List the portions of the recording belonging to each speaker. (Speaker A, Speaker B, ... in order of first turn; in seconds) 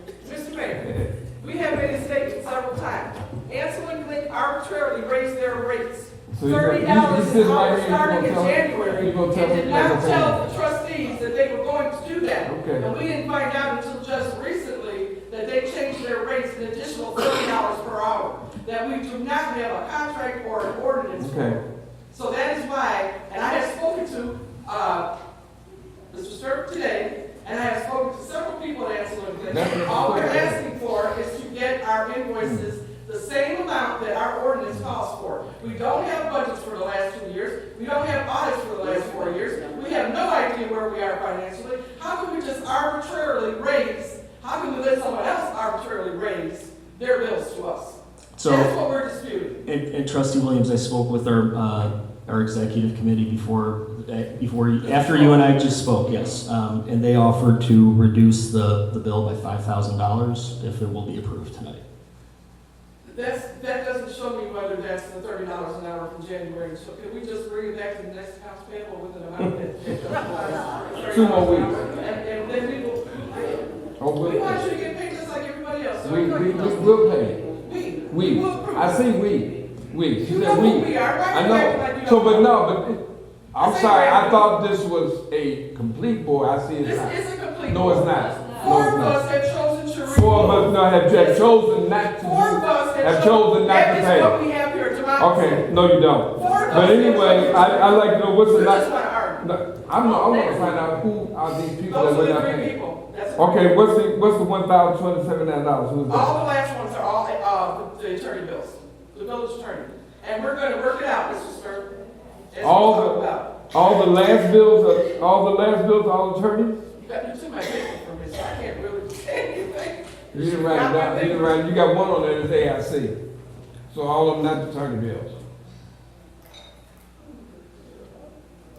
Speaker A: 0.2-25.1, 26.1-49.6, 54.8-56.4, 63.0-76.8, 77.6-79.1, 80.2-82.5, 83.6-84.5, 86.8-91.4, 92.2-95.7, 96.3-99.4, 100.0-100.8, 101.9-103.8, 106.1-111.9, 112.5-113.7, 117.0-121.6
Speaker B: 0.8-1.1, 6.3-10.4, 12.4-12.8, 21.2-21.6, 29.5-30.6, 32.4-32.7, 71.1-71.8, 74.0-74.6, 76.0-77.4, 78.1-83.0, 83.5-89.2, 90.1-94.4, 95.2-98.9, 99.4-102.7, 103.4-106.3, 112.6-116.8, 120.3-123.2, 123.9-125.3
Speaker C: 48.4-48.7, 49.6-61.8